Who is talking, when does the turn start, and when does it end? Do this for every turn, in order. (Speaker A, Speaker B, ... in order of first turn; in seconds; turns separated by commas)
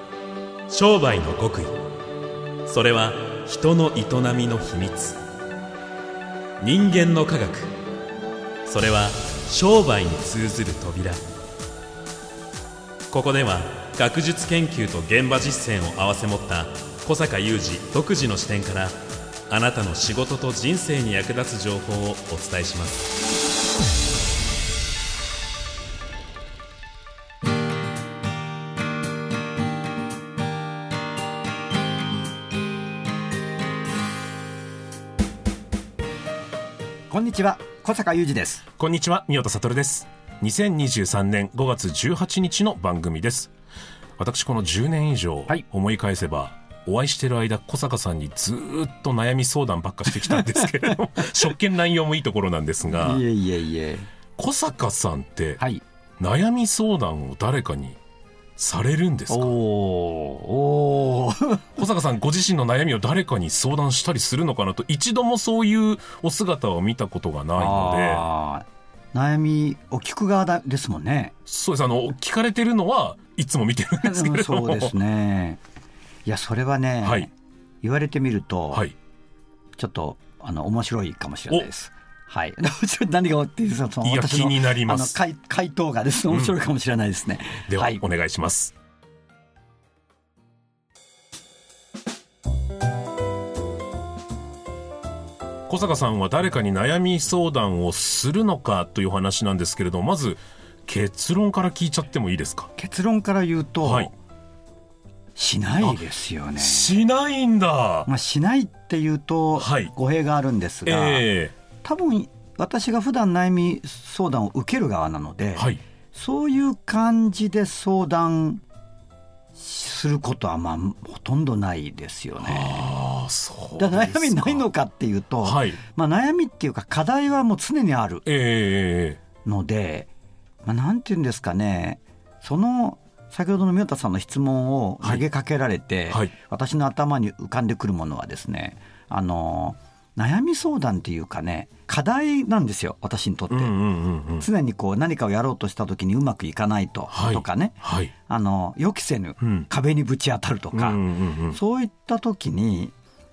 Speaker A: 0.7-1.8, Speaker A: 2.7-5.2, Speaker A: 6.6-7.7, Speaker A: 8.7-11.2, Speaker A: 13.1-19.0, Speaker A: 19.5-23.1, Speaker B: 37.1-38.6, Speaker C: 38.8-43.5, Speaker C: 44.2-53.2, Speaker B: 50.2-50.8, Speaker B: 52.9-54.1, Speaker C: 54.4-55.6, Speaker C: 56.2-58.0, Speaker C: 58.6-59.5, Speaker B: 59.3-61.9, Speaker C: 61.8-68.2, Speaker B: 67.6-71.3, Speaker C: 71.5-74.9, Speaker B: 74.0-75.6, Speaker B: 76.3-78.8, Speaker B: 79.8-88.0, Speaker C: 84.0-85.2, Speaker C: 86.3-86.5, Speaker C: 87.7-88.7, Speaker C: 95.7-102.7, Speaker B: 102.8-104.1, Speaker C: 103.8-104.1, Speaker B: 105.4-107.0, Speaker C: 106.6-108.1, Speaker B: 108.1-111.3, Speaker C: 109.6-109.9, Speaker C: 110.9-111.5, Speaker B: 111.8-118.6, Speaker B: 119.5-122.9, Speaker C: 122.4-124.7, Speaker B: 123.8-128.2, Speaker C: 125.4-125.8, Speaker C: 128.2-129.2, Speaker B: 129.4-130.1, Speaker B: 130.6-143.7, Speaker C: 143.5-144.5, Speaker B: 144.4-151.0, Speaker C: 147.1-148.1, Speaker C: 149.4-149.7, Speaker C: 150.7-151.6, Speaker B: 151.5-152.9